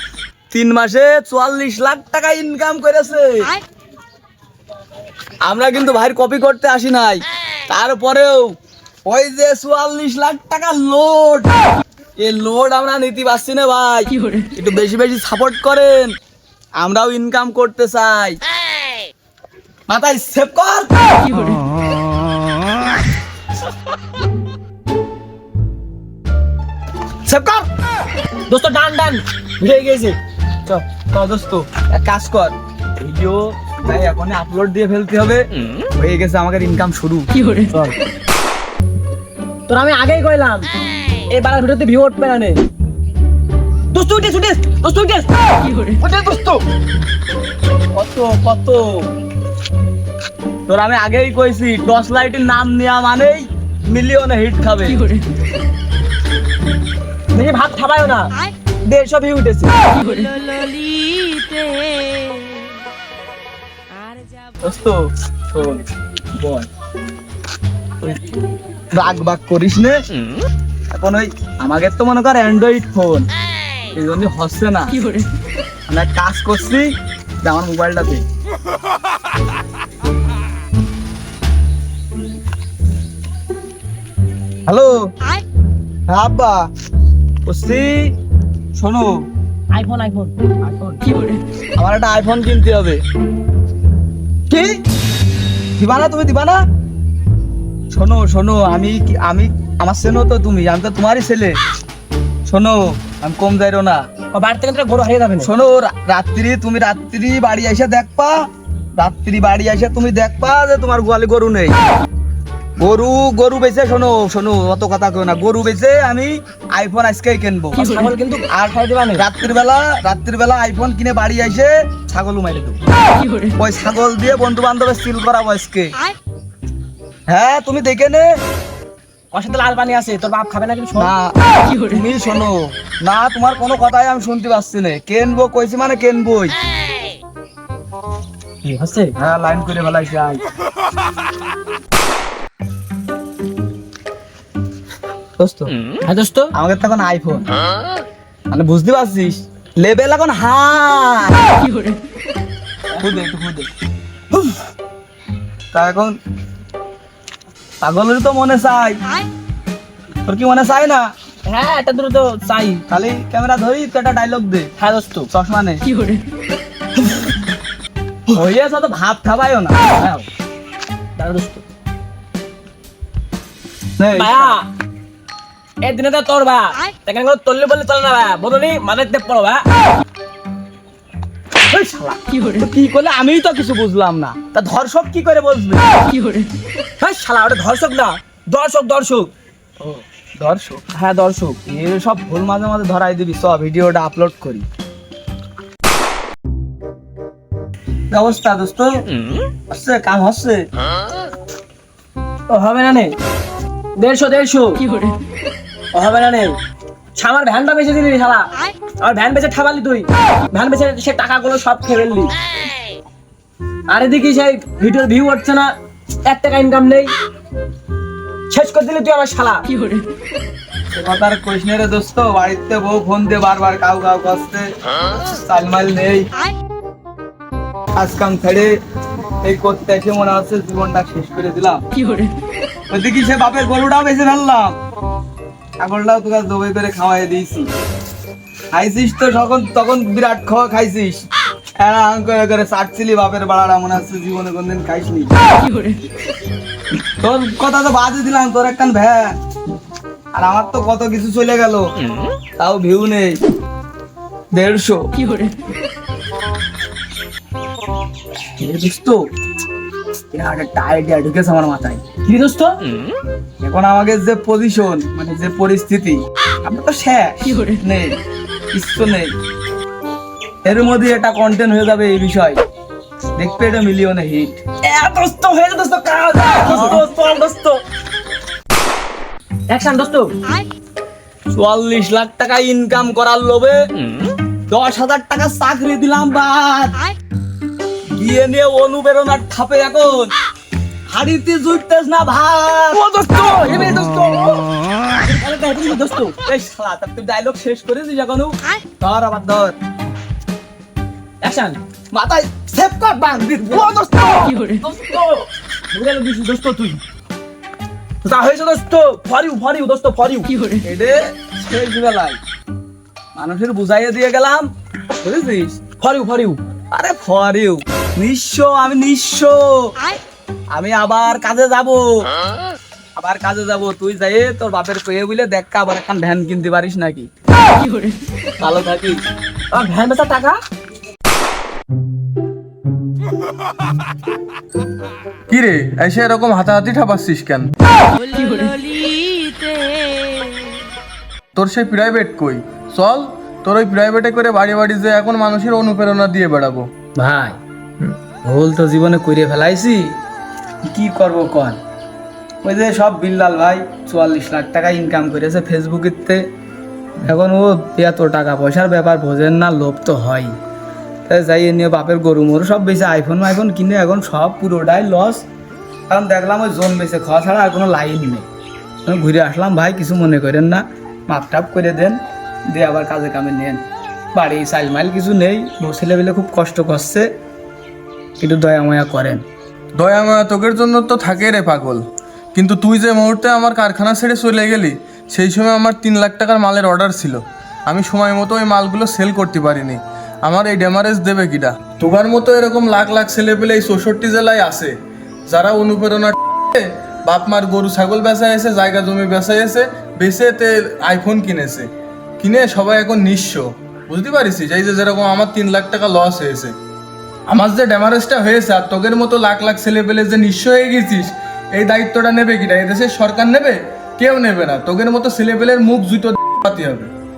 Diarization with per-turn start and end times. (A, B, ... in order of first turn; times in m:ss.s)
0:00.5-0:03.5 A
0:05.5-0:08.5 A
0:09.0-0:11.5 A
0:12.2-0:16.1 A
0:16.8-0:18.4 A
0:19.9-0:20.9 A
0:27.3-0:27.7 A
0:28.5-0:30.2 B
0:30.7-0:37.3 A
0:37.7-0:38.0 B
0:39.7-0:40.7 B
0:41.3-0:42.6 B
0:43.9-0:45.3 B
0:46.0-0:46.6 B
0:48.0-0:49.0 A
0:50.7-0:55.0 A
0:57.3-0:58.3 B
0:58.9-0:59.7 A
1:00.0-1:02.3 B
1:04.6-1:05.0 A
1:05.5-1:05.8 A
1:06.4-1:06.7 A
1:08.9-1:10.0 A
1:10.9-1:13.3 A
1:13.9-1:15.0 A
1:15.9-1:16.9 A
1:17.4-1:18.2 A
1:24.7-1:25.1 A
1:26.1-1:26.7 A
1:27.4-1:28.1 A
1:28.8-1:29.3 A
1:29.7-1:31.0 B
1:31.8-1:33.0 A
1:34.5-1:34.8 A
1:35.8-1:36.6 A
1:37.9-1:41.6 A
1:42.5-1:44.1 A
1:44.3-1:45.5 B
1:45.4-1:48.4 A
1:49.0-1:51.8 A
1:52.8-1:57.9 A
1:57.8-1:59.2 B
1:59.2-2:02.8 A
2:03.6-2:06.0 A
2:07.3-2:08.2 A
2:09.3-2:11.1 B
2:11.0-2:16.6 A
2:18.6-2:19.1 B
2:19.2-2:20.4 A
2:25.4-2:25.7 A
2:26.0-2:26.5 B
2:26.6-2:27.5 A
2:28.5-2:31.6 A
2:33.0-2:33.7 A
2:35.7-2:36.2 A
2:37.8-2:39.0 A
2:40.2-2:41.0 A
2:41.5-2:42.8 B
2:42.9-2:44.7 A
2:44.8-2:45.3 B
2:45.3-2:45.8 A
2:48.3-2:50.2 A
2:51.2-2:51.6 B
2:54.0-2:54.6 A
2:54.1-2:54.6 B
2:55.8-2:59.6 B
3:01.7-3:05.9 A
3:07.0-3:09.3 B
3:09.8-3:14.7 A
3:18.1-3:18.9 A
3:19.7-3:20.6 A
3:22.5-3:23.2 B
3:24.0-3:24.9 B
3:25.9-3:26.6 B
3:27.2-3:28.5 B
3:29.0-3:32.3 B
3:33.9-3:37.1 B
3:38.5-3:39.7 B
3:40.9-3:46.3 A
3:48.0-3:48.8 A
3:49.4-3:51.8 A
3:52.9-3:54.8 A
3:55.8-3:57.7 A
3:58.7-4:05.3 A
4:07.2-4:09.4 A
4:10.3-4:11.9 A
4:12.6-4:13.4 A
4:14.5-4:15.1 A
4:18.6-4:19.2 A
4:20.3-4:22.1 A
4:22.2-4:22.8 B
4:23.6-4:28.2 A
4:28.7-4:29.3 A
4:30.6-4:32.6 A
4:33.4-4:34.6 A
4:34.8-4:37.8 B
4:36.7-4:37.0 A
4:39.7-4:40.3 B
4:41.5-4:43.8 A
4:44.7-4:47.0 A
4:48.1-4:50.3 A
4:51.1-4:53.0 A
4:52.9-4:54.7 B
4:55.2-4:56.3 B
4:56.4-4:59.8 A
5:01.4-5:01.8 B
5:02.1-5:04.0 A
5:03.7-5:07.0 B
5:08.2-5:10.5 B
5:10.8-5:12.4 A
5:13.4-5:14.7 A
5:15.2-5:15.8 A
5:16.0-5:16.6 B
5:16.9-5:19.9 A
5:20.7-5:22.3 A
5:23.2-5:27.3 A
5:28.6-5:29.2 A
5:29.7-5:30.6 B
5:35.5-5:37.7 C
5:38.2-5:40.4 B
5:41.6-5:46.9 C
5:47.2-5:47.6 A
5:48.4-5:50.2 A
5:50.9-5:51.8 A
5:52.6-5:56.4 A
5:57.2-6:00.6 A
6:01.3-6:05.4 A
6:06.1-6:08.5 A
6:09.1-6:12.2 A
6:12.7-6:17.3 A
6:18.4-6:19.4 A
6:19.9-6:22.0 C
6:22.5-6:34.9 C
6:35.5-6:41.9 C
6:42.4-6:46.8 C
6:47.5-6:57.1 C